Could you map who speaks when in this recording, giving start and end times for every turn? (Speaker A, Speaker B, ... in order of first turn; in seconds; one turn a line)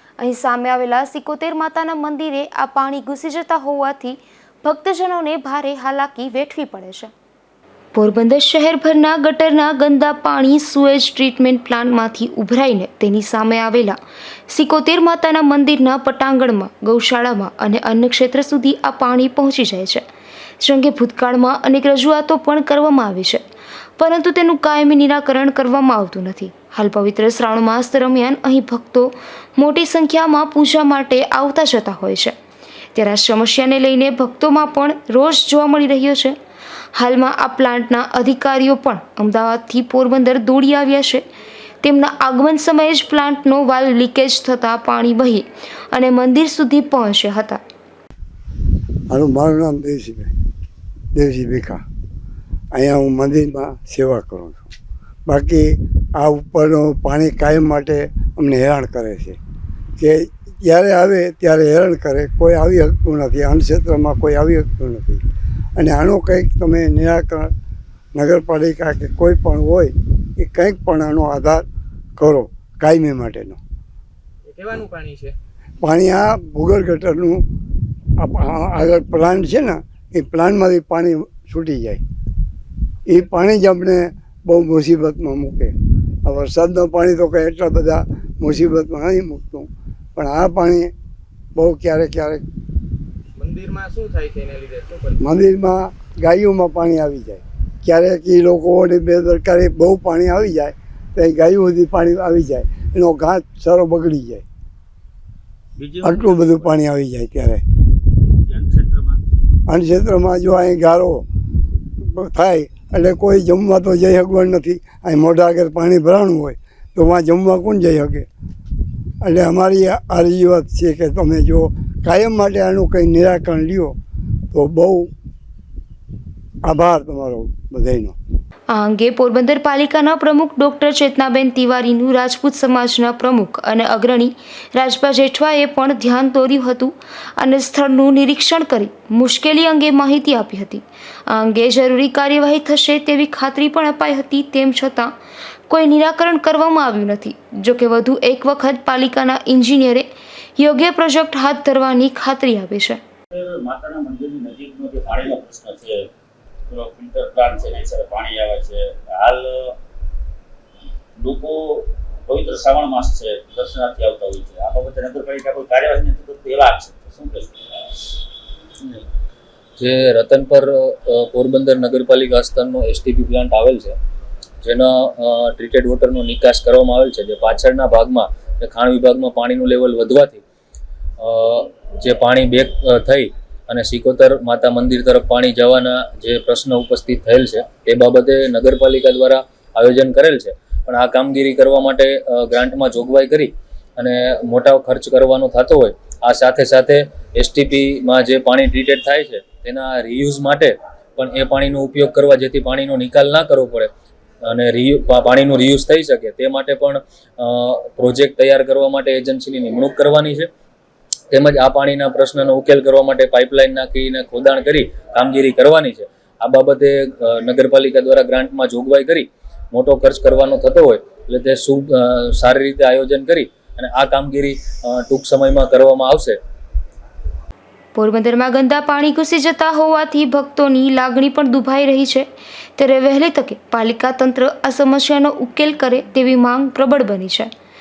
Speaker A: 0.2-7.1
Speaker A: 7.9-14.0
Speaker A: 14.5-20.0
Speaker A: 20.6-23.4
Speaker A: 24.0-32.3
Speaker A: 33.0-36.4
Speaker A: 36.9-41.2
Speaker A: 41.8-47.6
Speaker B: 49.1-50.3
Speaker B: 51.1-51.8
Speaker B: 52.7-54.7
Speaker B: 55.3-59.4
Speaker B: 60.0-65.2
Speaker B: 65.8-67.5
Speaker B: 68.2-71.7
Speaker B: 72.2-73.6
Speaker C: 74.5-75.4
Speaker B: 75.8-77.5
Speaker B: 78.2-82.0
Speaker B: 83.1-90.9
Speaker B: 91.5-92.4
Speaker C: 93.4-95.2
Speaker B: 95.2-104.4
Speaker D: 105.8-106.8
Speaker B: 106.0-107.6
Speaker D: 108.3-109.2
Speaker B: 109.7-111.3
Speaker B: 112.0-118.3
Speaker B: 119.2-124.0
Speaker B: 124.5-125.1
Speaker B: 126.7-128.2
Speaker A: 128.7-145.1
Speaker A: 145.7-153.0
Speaker D: 153.3-156.1
Speaker D: 156.7-159.7
Speaker D: 161.2-167.8
Speaker E: 169.8-174.0
Speaker E: 174.6-180.4
Speaker E: 181.2-203.9
Speaker E: 204.4-210.5
Speaker E: 211.3-226.4
Speaker A: 227.9-232.3
Speaker A: 232.8-237.5